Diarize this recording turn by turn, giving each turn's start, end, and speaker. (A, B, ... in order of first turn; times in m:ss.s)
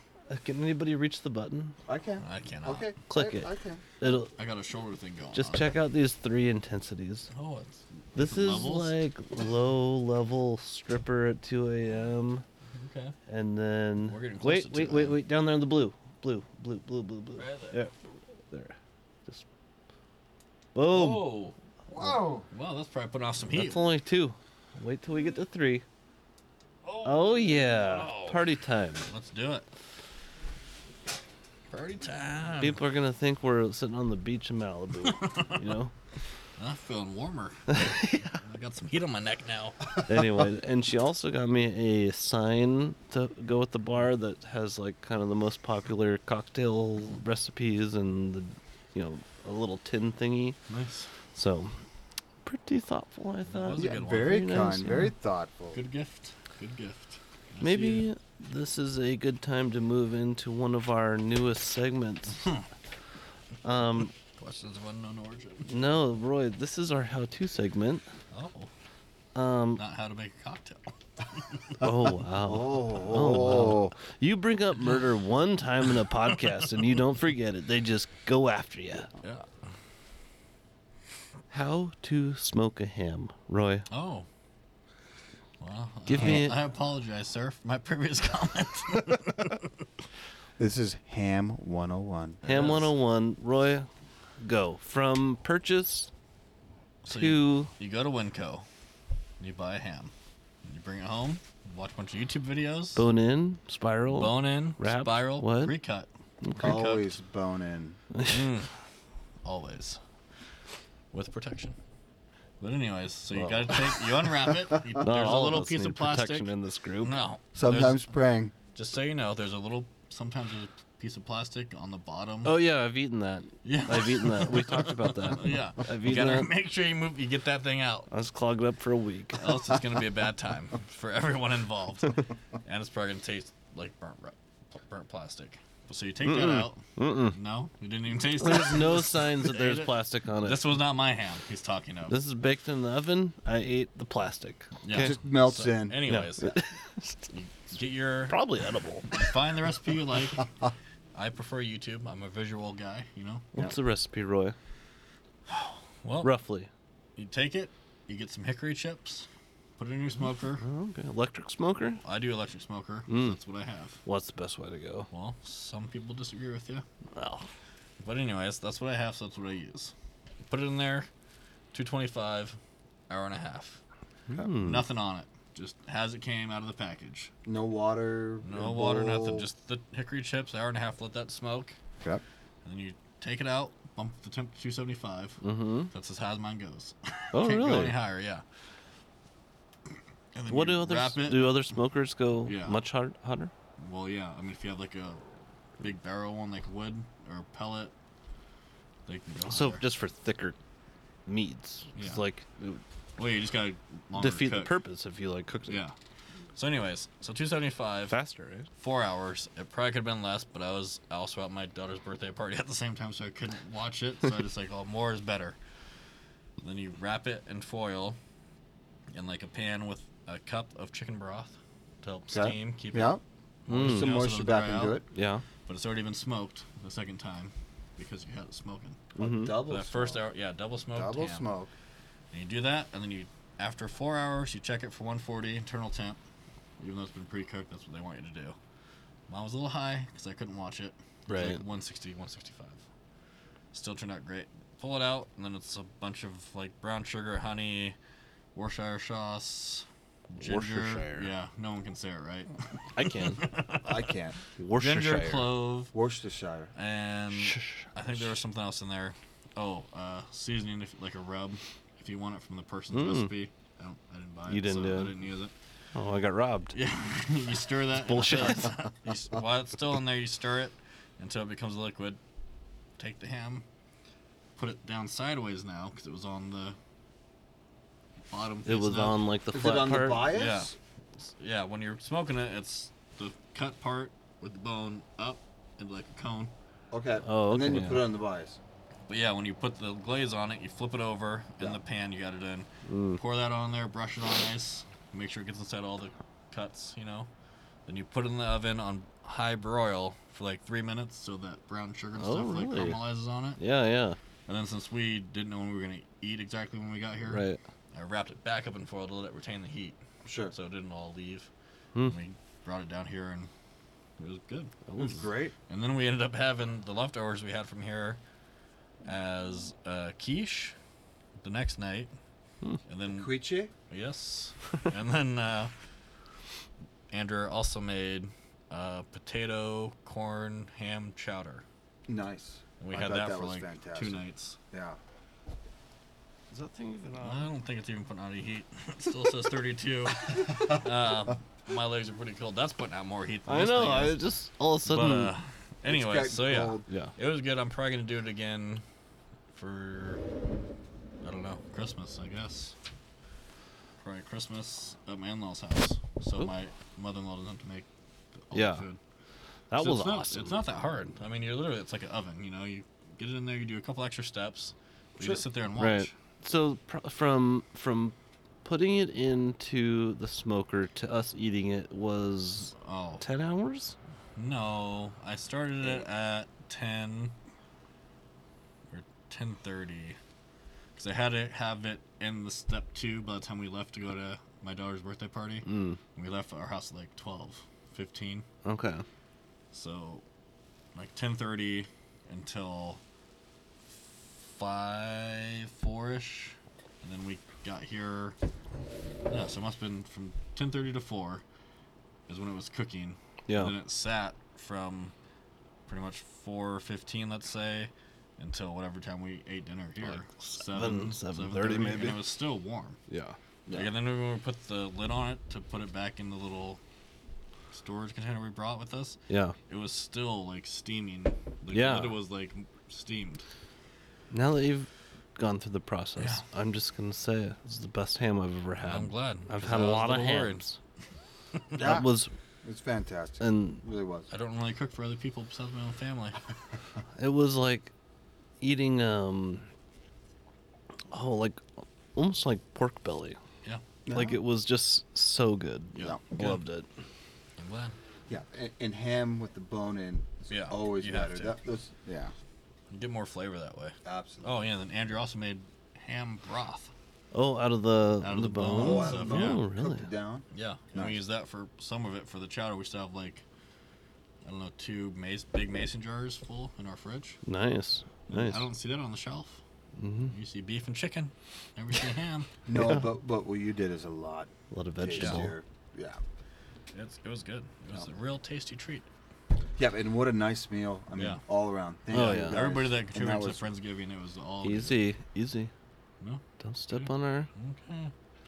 0:00.3-0:01.8 A
0:01.9-0:03.8 B
0:02.2-0:02.9 C
0:03.1-0:03.5 A
0:04.0-0:04.3 A
0:04.4-0:05.8 C
0:05.3-0:07.3 A
0:07.3-0:08.9 C
0:08.2-0:12.4 A
0:12.7-0:13.2 C
0:13.3-0:17.9 A
0:14.1-0:15.2 C
0:17.4-0:17.8 C
0:18.5-0:19.4 A
0:20.8-0:21.3 A
0:20.9-0:21.6 C
0:21.9-0:22.5 B
0:22.5-0:23.8 C
0:23.5-0:25.8 A
0:26.8-0:28.4 C
0:27.0-0:29.1 A
0:29.1-0:29.7 C
0:31.7-0:32.8 C
0:32.6-0:35.9 A
0:35.0-0:35.7 C
0:36.6-0:40.0 C
0:37.7-0:38.4 A
0:40.0-0:50.6 A
0:50.7-0:51.1 C
0:51.3-0:51.8 A
0:52.4-0:55.1 A
0:53.5-0:54.4 C
0:53.8-0:55.8 B
0:55.7-0:58.1 C
0:57.6-1:02.5 A
1:03.6-1:04.1 A
1:04.3-1:05.7 C
1:05.7-1:08.1 A
1:08.3-1:08.7 C
1:09.4-1:09.8 A
1:09.8-1:11.8 C
1:11.8-1:19.1 A
1:12.4-1:14.0 B
1:19.2-1:19.5 C
1:21.5-1:23.9 A
1:23.9-1:24.3 C
1:25.6-1:29.7 C
1:26.1-1:26.6 A
1:30.6-1:32.4 B
1:32.4-1:32.9 C
1:32.4-1:33.9 A
1:34.4-1:36.1 A
1:37.0-1:38.7 C
1:37.1-1:37.7 A
1:39.4-1:40.1 C
1:40.6-1:43.0 C
1:43.0-1:45.7 A
1:44.1-1:47.2 C
1:46.4-1:46.8 A
1:46.6-1:48.0 B
1:48.1-1:48.4 A
1:48.3-1:48.7 C
1:49.4-1:50.0 C
1:51.1-1:51.8 C
1:52.6-1:56.5 C
1:53.3-1:53.8 A
1:55.0-1:57.2 A
1:57.0-1:58.1 C
1:57.6-1:58.5 B
1:58.8-2:02.6 C
2:02.4-2:06.5 A
2:03.6-2:08.1 C
2:08.1-2:09.5 A
2:09.4-2:22.2 C
2:16.2-2:17.4 A
2:18.4-2:20.6 A
2:22.1-2:25.2 A
2:24.8-2:26.6 C
2:24.9-2:26.0 B
2:26.1-2:27.2 A
2:27.3-2:28.4 C
2:28.3-2:29.1 A
2:29.1-2:30.5 C
2:31.2-2:33.5 C
2:33.6-2:34.6 A
2:35.5-2:36.3 C
2:36.2-2:36.7 A
2:37.2-2:40.6 C
2:40.6-2:42.0 A
2:42.0-2:44.0 C
2:43.1-2:43.4 A
2:44.0-2:45.1 A
2:45.1-2:46.8 C
2:47.2-2:47.5 A
2:48.0-2:49.9 C
2:50.5-2:51.1 C
2:51.7-2:52.6 C
2:53.1-2:53.8 C
2:54.3-2:54.8 A
2:54.6-2:57.3 C
2:57.5-2:59.5 B
2:58.4-3:01.8 C
3:02.6-3:08.4 C
3:05.4-3:05.9 A
3:07.3-3:08.0 A
3:10.3-3:11.6 C
3:10.5-3:13.5 A
3:12.5-3:12.8 C
3:13.8-3:15.2 C
3:15.8-3:17.9 C
3:19.1-3:19.8 C
3:19.5-3:20.6 A
3:21.3-3:22.8 A
3:22.0-3:22.2 C
3:23.2-3:24.8 C
3:24.2-3:25.8 A
3:25.7-3:26.0 C
3:26.6-3:28.2 C
3:28.1-3:28.7 A
3:28.8-3:35.6 C
3:36.6-3:38.2 C
3:39.1-3:45.0 C
3:42.3-3:43.2 B
3:43.7-3:44.1 A
3:43.7-3:45.0 B
3:45.1-3:45.4 A
3:45.7-3:49.0 C
3:49.2-3:49.6 A
3:49.2-3:50.2 B
3:49.7-3:51.5 C
3:50.9-3:51.7 B
3:52.3-3:56.2 C
3:56.8-3:58.6 C
3:59.3-4:02.8 C
4:01.3-4:01.6 A
4:03.7-4:08.0 C
4:08.5-4:14.1 C
4:10.4-4:11.3 A
4:13.0-4:13.4 A
4:13.8-4:14.4 B
4:14.6-4:15.5 A
4:14.8-4:16.0 C
4:15.9-4:16.7 B
4:16.8-4:25.5 C
4:17.4-4:17.8 A
4:22.9-4:23.3 A
4:24.5-4:25.1 A
4:26.0-4:26.8 A
4:26.7-4:32.2 C
4:28.0-4:28.8 A
4:33.0-4:33.7 C
4:34.6-4:36.8 C
4:38.3-4:39.2 C
4:38.6-4:40.3 A
4:39.5-4:40.7 B
4:40.3-4:40.8 C
4:41.4-4:46.5 C
4:46.9-4:48.6 B
4:47.3-4:48.0 A
4:49.1-4:57.3 C
4:52.9-4:53.2 A
4:57.9-5:03.6 C
5:02.2-5:03.0 A
5:03.6-5:04.2 A
5:04.5-5:10.0 C
5:07.3-5:07.6 A
5:10.2-5:10.5 B
5:10.5-5:11.5 C
5:12.1-5:13.5 C
5:14.2-5:18.2 C
5:14.9-5:15.2 A
5:15.0-5:15.5 B
5:19.0-5:20.8 C
5:21.4-5:22.1 C
5:22.9-5:23.3 C
5:23.1-5:23.7 B
5:23.9-5:25.7 C
5:27.1-5:31.6 C
5:32.1-5:35.0 B
5:32.8-5:34.6 C
5:36.5-5:37.5 A
5:37.2-5:44.2 C
5:43.5-5:45.3 A
5:44.9-5:48.8 C
5:45.9-5:46.9 B
5:49.5-5:50.2 C
5:51.2-5:52.8 C
5:54.0-5:57.9 C
5:58.5-5:59.0 C
5:58.5-5:58.8 A
5:59.7-6:00.6 A
5:59.8-6:06.1 C
6:05.8-6:14.0 A
6:12.8-6:13.2 C
6:14.4-6:17.3 C
6:18.9-6:20.2 C
6:21.0-6:28.5 C
6:25.6-6:26.0 A
6:28.6-6:29.0 A
6:29.7-6:30.2 C
6:30.9-6:33.0 C
6:34.4-6:38.4 C
6:39.3-6:41.4 C
6:42.3-6:45.1 C
6:45.9-6:53.0 C
6:50.6-6:52.2 A
6:53.1-6:53.4 A
6:53.7-6:56.8 C
6:57.7-7:03.4 C
6:59.3-6:59.6 A
7:01.7-7:02.2 A
7:04.3-7:10.8 A
7:08.9-7:10.7 C
7:11.7-7:12.1 B
7:11.8-7:12.3 A
7:12.6-7:14.3 B
7:13.4-7:13.8 A
7:14.3-7:16.5 C
7:17.2-7:17.9 A
7:18.6-7:19.7 A
7:21.1-7:21.6 A
7:22.1-7:23.4 A
7:24.0-7:24.4 B
7:24.1-7:26.9 A
7:26.0-7:26.6 C
7:27.6-7:28.0 C
7:28.3-7:32.3 B
7:30.5-7:31.6 C
7:32.9-7:36.9 C
7:34.0-7:34.6 B
7:37.3-7:40.1 A
7:38.2-7:39.6 C
7:38.8-7:41.2 B
7:40.5-7:43.4 C
7:44.4-7:47.4 C
7:47.4-7:48.6 A
7:48.3-7:49.6 C
7:50.0-7:50.3 A
7:50.3-7:52.5 C
7:52.7-7:56.2 B
7:52.7-7:53.0 A
7:54.7-7:55.6 A
7:55.2-7:55.5 C
7:56.9-7:59.1 C
7:59.8-8:03.6 B
8:01.2-8:01.4 C
8:02.1-8:02.6 A
8:02.1-8:05.0 C
8:04.6-8:05.7 A
8:06.2-8:08.1 C
8:06.6-8:07.5 A